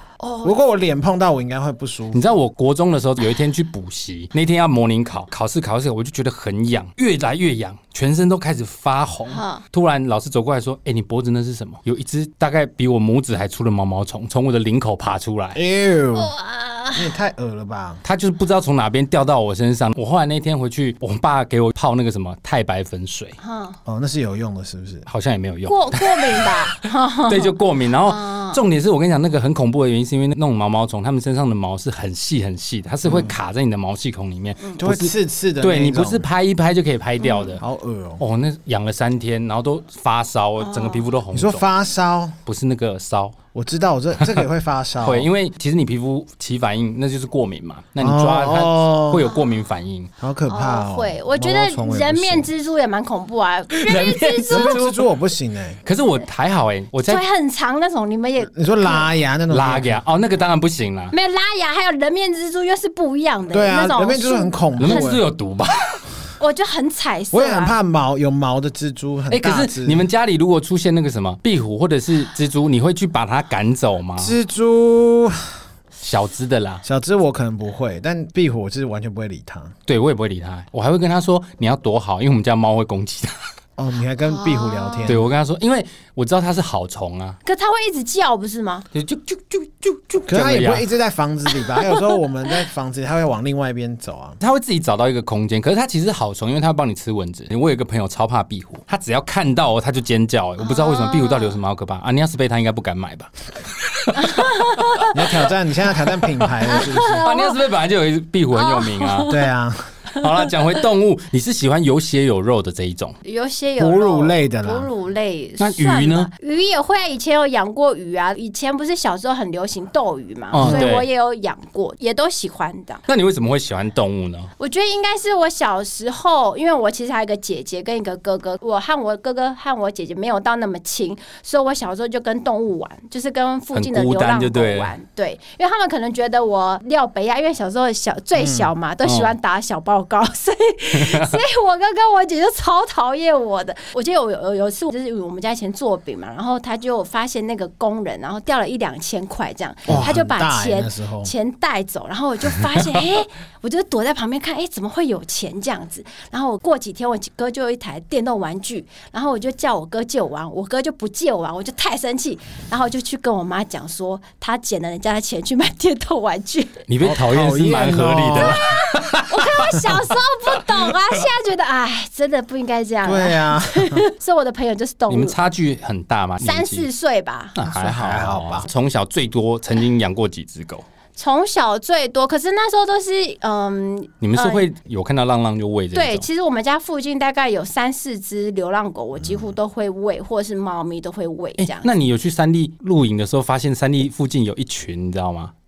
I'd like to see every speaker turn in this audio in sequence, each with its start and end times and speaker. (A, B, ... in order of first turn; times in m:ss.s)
0:00.2-0:00.5 A
0:00.4-0:02.4 B
0:02.1-0:15.6 C
0:09.3-0:09.6 A
0:15.5-0:16.3 B
0:16.1-0:17.1 A
0:16.9-0:18.0 B
0:18.0-0:23.4 C
0:23.4-0:23.8 A
0:23.8-0:25.0 B
0:25.1-0:26.6 C
0:25.6-0:28.6 A
0:27.3-0:37.6 C
0:33.0-0:33.3 B
0:34.8-0:36.2 B
0:37.2-0:37.6 A
0:37.6-0:38.2 B
0:38.2-0:41.6 C
0:40.6-0:41.1 A
0:41.3-0:42.4 B
0:42.4-0:43.4 C
0:43.5-0:45.3 B
0:45.0-0:50.1 C
0:48.0-0:49.3 B
0:50.2-0:52.5 B
0:50.5-0:54.8 A
0:53.7-0:55.0 C
0:54.5-0:55.8 B
0:55.8-0:57.2 C
0:57.0-0:59.1 A
0:58.4-1:00.0 B
0:59.5-1:01.1 C
1:01.1-1:05.2 A
1:03.5-1:05.2 B
1:04.8-1:06.0 C
1:06.4-1:07.7 A
1:07.3-1:10.1 B
1:09.3-1:14.4 C
1:14.2-1:15.6 B
1:16.0-1:16.8 C
1:16.8-1:19.7 B
1:19.9-1:23.4 C
1:23.8-1:25.2 B
1:24.2-1:25.2 A
1:25.0-1:27.4 C
1:27.4-1:28.8 A
1:28.9-1:30.8 C
1:30.3-1:34.4 B
1:34.4-1:45.1 C
1:40.6-1:41.6 A
1:44.2-1:45.1 A
1:45.1-1:47.2 B
1:46.6-1:47.6 A
1:47.2-1:49.4 C
1:48.5-1:49.4 A
1:49.3-1:50.0 B
1:50.2-1:50.5 A
1:50.2-1:53.1 C
1:53.2-2:03.0 A
1:53.8-1:54.9 B
1:55.6-1:56.3 C
2:00.5-2:01.1 C
2:00.6-2:00.9 B
2:03.1-2:04.5 C
2:04.6-2:46.8 A
2:13.7-2:14.9 C
2:18.3-2:18.7 B
2:19.0-2:19.3 C
2:20.9-2:21.4 C
2:29.9-2:31.3 B
2:46.9-2:50.1 C
2:47.0-2:48.6 B
2:48.4-2:55.4 A
2:53.0-2:54.0 B
2:55.1-2:56.9 C
2:56.4-2:57.6 A
2:57.6-3:00.8 C
2:57.6-2:58.7 B
3:01.2-3:04.7 A
3:04.2-3:06.3 C
3:05.9-3:11.9 A
3:11.6-3:15.5 C